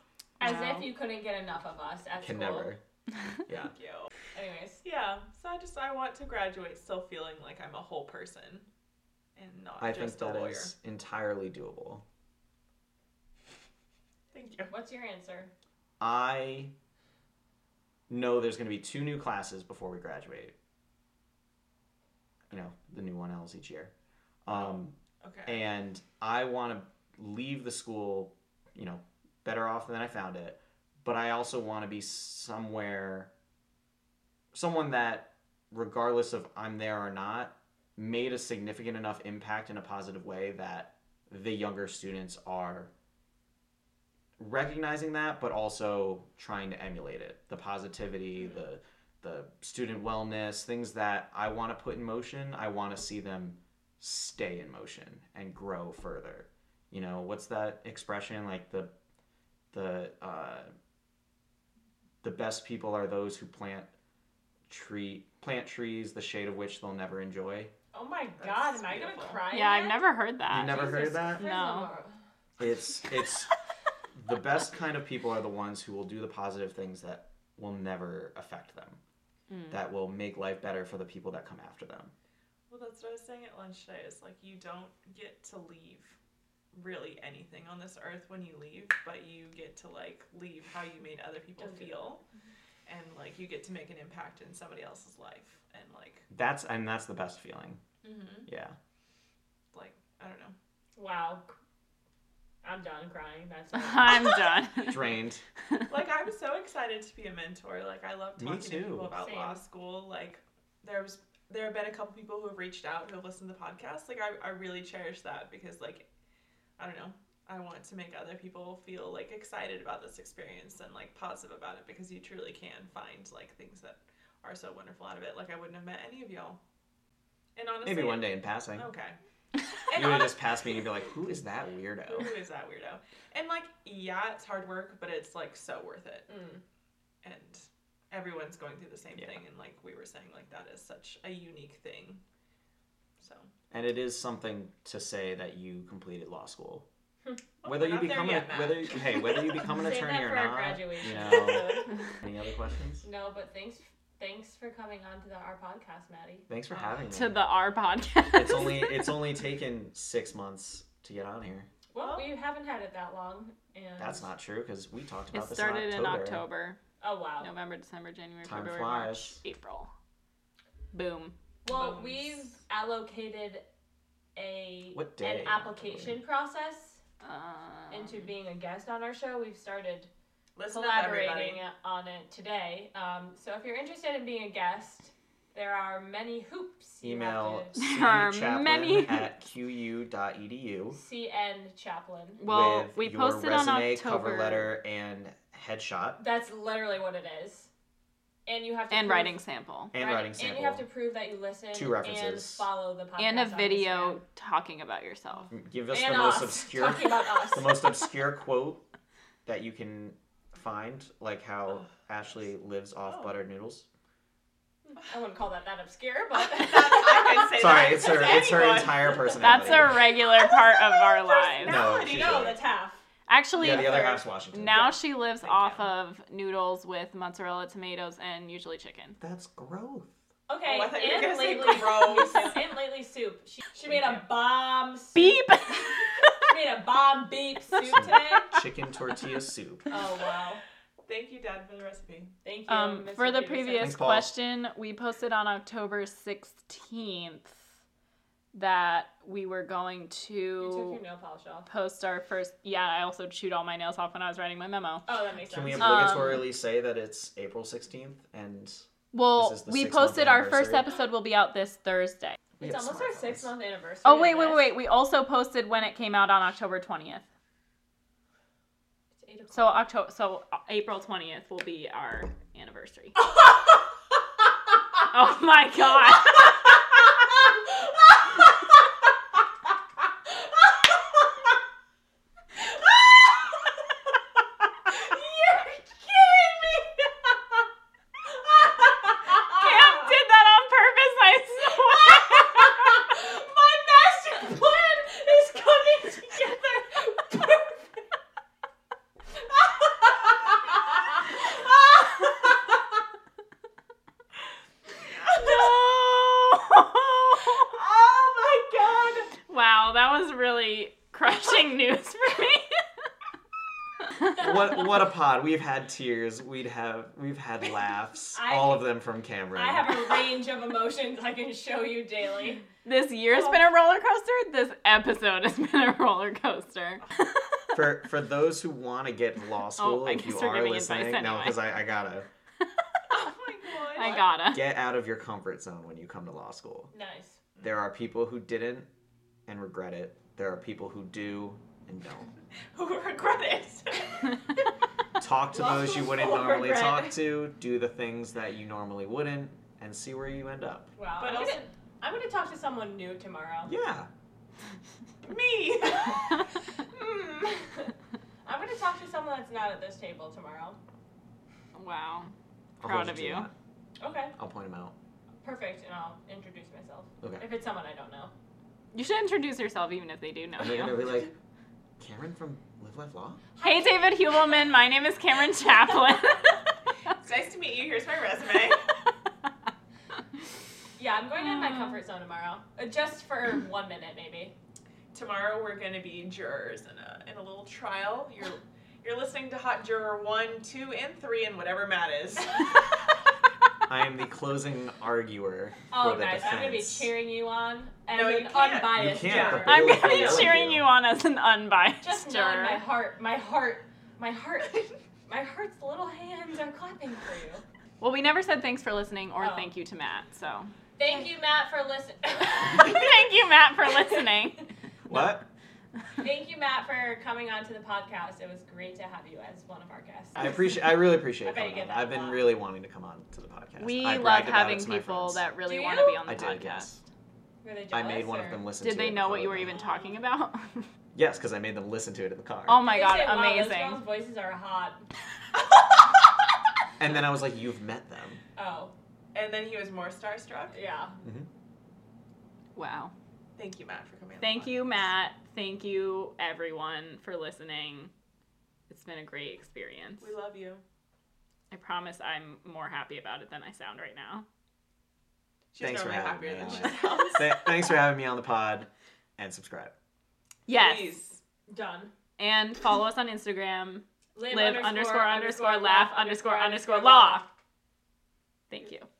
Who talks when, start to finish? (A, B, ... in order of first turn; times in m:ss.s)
0:00.4-0:00.9 A
0:00.4-0:02.7 B
0:02.2-0:02.8 C
0:03.5-0:03.7 C
0:03.7-0:04.1 D
0:04.3-0:04.8 B
0:04.8-0:08.7 D
0:09.4-0:10.7 D
0:09.8-0:12.0 C
0:14.3-0:14.7 D
0:14.7-0:15.5 B
0:16.0-0:16.7 C
0:18.1-0:20.5 C
0:22.5-0:23.9 C
0:24.4-0:33.3 C
0:24.5-0:25.6 D
0:34.5-0:42.9 C
0:44.4-0:58.9 C
0:59.7-1:00.7 C
1:02.2-1:03.9 C
1:04.7-1:07.7 C
1:07.9-1:10.0 B
1:08.4-1:09.4 D
1:09.5-1:11.9 A
1:10.5-1:11.5 C
1:10.6-1:12.2 B
1:12.6-1:13.5 C
1:14.1-1:19.0 C
1:19.5-1:19.8 A
1:19.7-1:22.1 C
1:22.7-1:26.2 D
1:26.7-1:32.2 D
1:31.6-1:32.1 B
1:32.9-1:36.3 D
1:36.3-1:37.8 C
1:38.0-1:38.5 D
1:38.5-1:38.8 C
1:39.7-1:40.6 D
1:41.0-1:41.5 B
1:42.6-1:44.5 B
1:43.7-1:45.1 A
1:44.9-1:45.4 C
1:45.9-1:56.0 D
1:48.4-1:49.1 C
1:49.2-1:49.6 B
1:56.8-2:06.6 D
2:07.6-2:09.2 D
2:07.8-2:08.9 C
2:09.9-2:10.4 D
2:09.9-2:12.4 C
2:12.1-2:16.3 D
2:16.3-2:16.6 B
2:17.2-2:22.2 D
2:23.2-2:23.5 D
2:23.7-2:26.9 C
2:27.6-2:29.6 D
2:27.6-2:33.0 C
2:29.6-2:31.9 B
2:33.0-2:36.5 B
2:36.5-2:37.4 C
2:36.7-2:37.0 D
2:37.1-2:39.1 A
2:38.3-2:41.7 C
2:41.9-2:44.3 B
2:42.0-2:42.3 D
2:44.0-2:46.4 C
2:45.3-2:46.8 A
2:47.0-2:47.5 B
2:47.4-2:49.9 A
2:48.4-2:49.4 C
2:50.9-2:51.3 A
2:51.6-2:53.7 B
2:51.7-2:52.5 D
2:54.4-2:57.0 B
2:54.9-2:56.2 C
2:57.2-2:58.2 A
2:57.9-3:00.1 B
3:00.6-3:01.6 D
3:00.7-3:07.8 B
3:07.0-3:11.0 C
3:07.8-3:09.3 A
3:10.9-3:12.4 B
3:12.4-3:14.7 A
3:12.4-3:16.2 C
3:16.2-3:17.7 B
3:18.4-3:19.4 B
3:18.9-3:19.9 A
3:19.9-3:20.9 C
3:19.9-3:24.2 B
3:21.7-3:22.7 C
3:23.2-3:25.5 A
3:25.5-3:28.8 C
3:25.9-3:27.7 B
3:29.4-3:33.9 C
3:33.1-3:33.4 D
3:34.9-3:37.5 B
3:36.4-3:42.6 D
3:37.5-3:40.1 C
3:39.4-3:41.9 A
3:41.6-3:42.6 C
3:41.8-3:43.0 B
3:43.3-3:49.2 A
3:43.6-3:45.0 C
3:45.4-3:45.8 D
3:49.2-3:50.1 C
3:50.5-3:55.4 B
3:50.6-3:52.6 D
3:53.9-3:54.2 D
3:55.1-3:56.0 A
3:56.4-3:58.6 B
3:57.8-3:59.9 C
3:59.9-4:00.6 B
4:01.0-4:02.3 D
4:02.4-4:04.0 B
4:02.7-4:07.6 A
4:03.8-4:04.4 C
4:08.5-4:11.0 A
4:10.6-4:11.7 B
4:11.7-4:15.0 A
4:15.0-4:16.1 B
4:15.4-4:20.9 C
4:15.8-4:16.4 A
4:19.1-4:22.4 A
4:22.6-4:24.7 B
4:22.6-4:23.5 C
4:24.0-4:27.2 A
4:29.2-4:29.7 B
4:29.5-4:33.2 A
4:35.1-4:36.6 A
4:44.9-4:47.1 B
4:49.4-4:52.8 A
4:52.1-4:57.9 B
5:05.2-5:05.5 D
5:05.3-5:07.6 A
5:07.7-5:09.3 D
5:09.4-5:12.8 A
5:14.3-5:20.2 C
5:18.3-5:18.9 B
5:19.6-5:22.7 B
5:22.8-5:27.8 A
5:27.7-5:32.3 C
5:29.8-5:31.6 A
5:33.1-5:34.4 D
5:33.8-5:34.7 A
5:34.5-5:36.9 C
5:36.9-5:37.4 B
5:37.6-5:38.9 C
5:39.4-5:42.3 C
5:42.7-5:44.6 D
5:45.2-5:50.9 C
5:45.7-5:47.0 D
5:51.0-5:53.7 B
5:51.2-5:51.7 D
5:53.6-5:54.1 C
5:55.2-5:56.4 D
5:56.9-5:57.9 B
5:58.4-6:00.8 B
6:01.7-6:03.5 A
6:02.8-6:03.5 C
6:04.0-6:04.3 B
6:04.4-6:05.0 C
6:05.4-6:08.3 B
6:08.9-6:11.1 A
6:10.6-6:11.3 C
6:12.0-6:13.4 C
6:13.6-6:14.3 B
6:13.6-6:16.6 A
6:17.2-6:18.9 D
6:21.0-6:24.5 B
6:21.7-6:22.0 A
6:25.1-6:33.1 D
6:33.9-6:37.1 C
6:35.9-6:39.8 B
6:38.1-6:40.6 D
6:38.9-6:40.9 C
6:39.6-6:42.8 A
6:42.0-6:47.6 B
6:48.0-6:50.7 A
6:49.4-6:49.7 B
6:51.0-6:53.1 B
6:52.6-6:55.4 A
6:55.1-6:55.5 C
6:56.2-7:00.5 B
7:00.4-7:05.4 C
7:01.4-7:02.5 B
7:03.8-7:06.9 A
7:05.7-7:06.2 B
7:06.2-7:07.0 C
7:07.6-7:08.7 B
7:07.9-7:09.8 C
7:08.8-7:10.9 A
7:11.1-7:12.8 C
7:12.7-7:14.0 A
7:12.8-7:15.0 B
7:17.0-7:18.4 C
7:18.6-7:18.9 B
7:19.3-7:20.8 D
7:20.7-7:21.2 B
7:21.2-7:21.5 C
7:22.7-7:23.1 A
7:23.6-7:25.0 D
7:24.4-7:28.1 A
7:28.9-7:30.3 A
7:30.2-7:30.8 D
7:31.7-7:34.4 A
7:35.7-7:37.7 D
7:35.8-7:39.9 C
7:40.7-7:41.2 A
7:40.7-7:41.4 D
7:41.7-7:42.1 B
7:42.4-7:47.5 A
7:44.4-7:47.5 B
7:48.7-7:49.1 A